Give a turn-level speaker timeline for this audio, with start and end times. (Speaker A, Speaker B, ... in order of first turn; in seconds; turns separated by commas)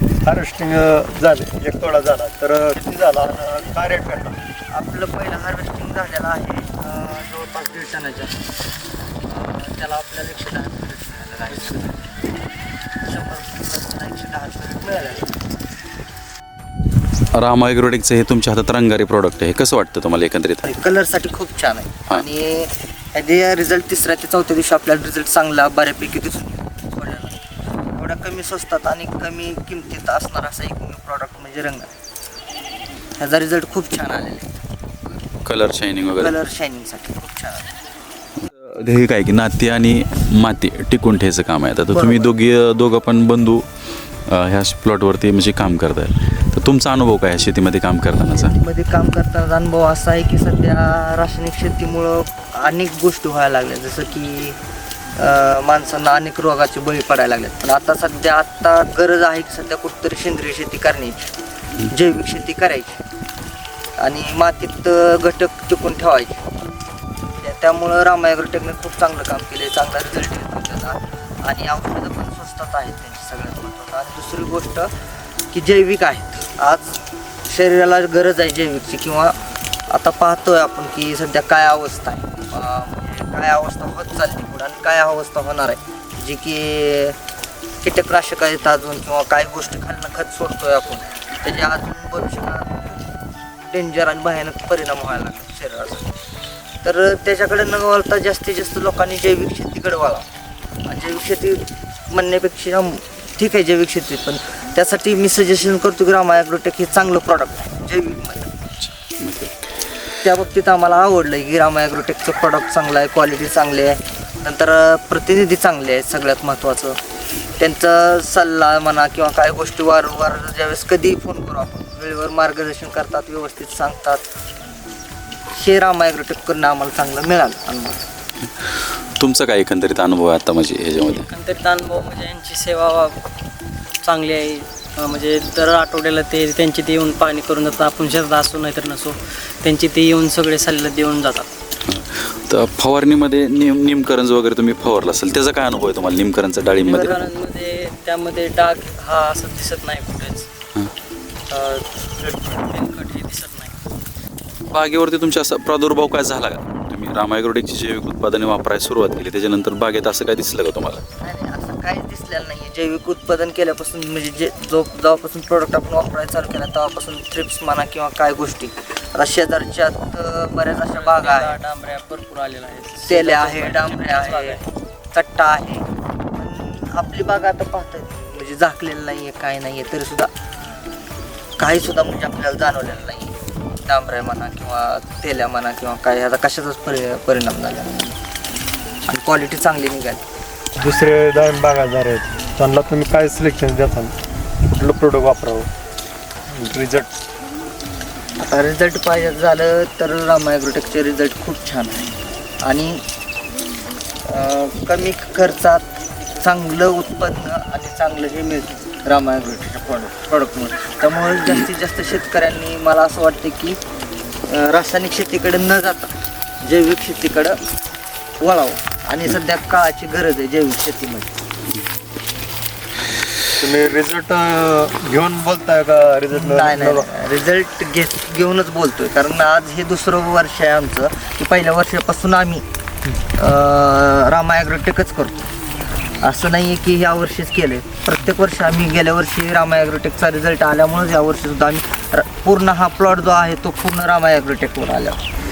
Speaker A: 0.2-4.4, Speaker B: 4.7-8.3, Speaker B: 9.2-12.1, Speaker B: 13.0-15.3, Speaker C: 17.3-20.6, Speaker B: 20.6-27.4, Speaker B: 27.9-31.9, Speaker B: 33.2-34.6, Speaker C: 35.4-36.3, Speaker B: 36.2-37.7, Speaker C: 38.5-43.6, Speaker B: 41.9-42.3, Speaker C: 44.2-48.5, Speaker B: 48.2-54.6, Speaker B: 55.1-61.3, Speaker B: 61.9-63.0, Speaker B: 64.0-66.5, Speaker B: 67.4-74.9, Speaker B: 75.5-79.3, Speaker B: 79.9-87.2, Speaker B: 87.8-93.0, Speaker B: 93.7-96.0, Speaker B: 96.8-100.2, Speaker B: 100.8-108.5, Speaker C: 109.1-109.5, Speaker B: 110.2-117.0, Speaker B: 117.6-124.2, Speaker B: 125.5-128.0, Speaker C: 129.2-131.3, Speaker D: 131.1-133.2, Speaker D: 134.0-141.5, Speaker C: 141.9-147.2, Speaker B: 146.8-147.1, Speaker D: 146.8-150.5, Speaker D: 151.5-153.8, Speaker C: 154.7-161.0, Speaker B: 161.2-171.6, Speaker D: 170.8-174.6, Speaker B: 173.1-180.3, Speaker B: 181.6-188.2, Speaker B: 189.1-190.2, Speaker A: 190.8-194.1, Speaker A: 194.7-195.7, Speaker A: 196.5-197.2, Speaker B: 198.4-203.0, Speaker B: 204.3-213.8, Speaker B: 214.5-217.6, Speaker B: 218.4-221.3, Speaker A: 223.6-227.1, Speaker B: 226.3-232.6, Speaker B: 233.3-235.5, Speaker B: 236.2-245.2